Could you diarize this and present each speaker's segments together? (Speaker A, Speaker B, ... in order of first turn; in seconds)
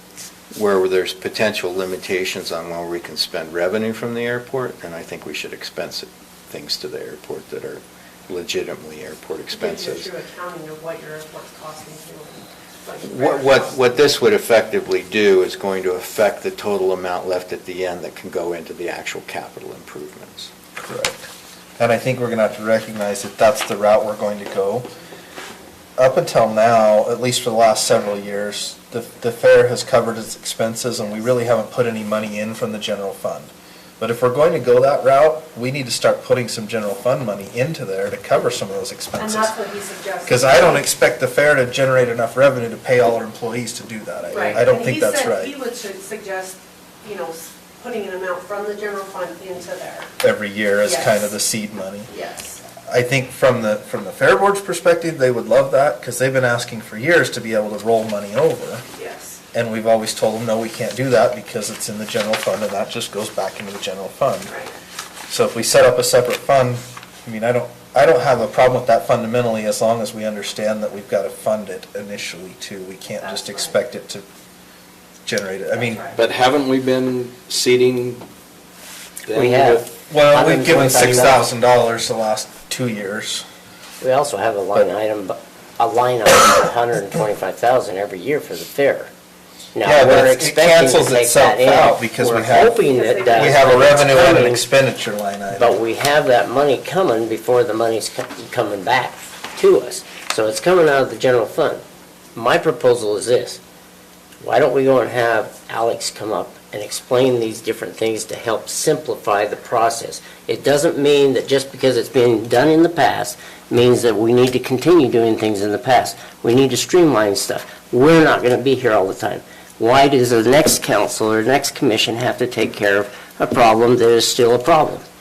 Speaker A: 0.5-10.1, 13.0-20.5
Speaker B: 9.5-13.8, 39.2-40.9, 44.3-50.1, 50.8-51.4, 52.1-52.6, 58.9-59.4, 64.5-64.7, 73.2-73.8, 75.7-76.2, 92.8-94.4
Speaker C: 20.8-24.9, 26.0-39.5, 40.3-45.5, 50.2-52.1, 52.9-58.9, 59.5-64.5, 65.3-74.2, 75.2-76.1, 80.1-83.4, 89.8-92.8, 93.3-95.8
Speaker D: 76.1-78.2, 79.3-79.9
Speaker E: 79.3-81.5, 84.0-89.1, 89.8-94.6, 95.5-101.8, 102.3-103.6, 104.4-125.0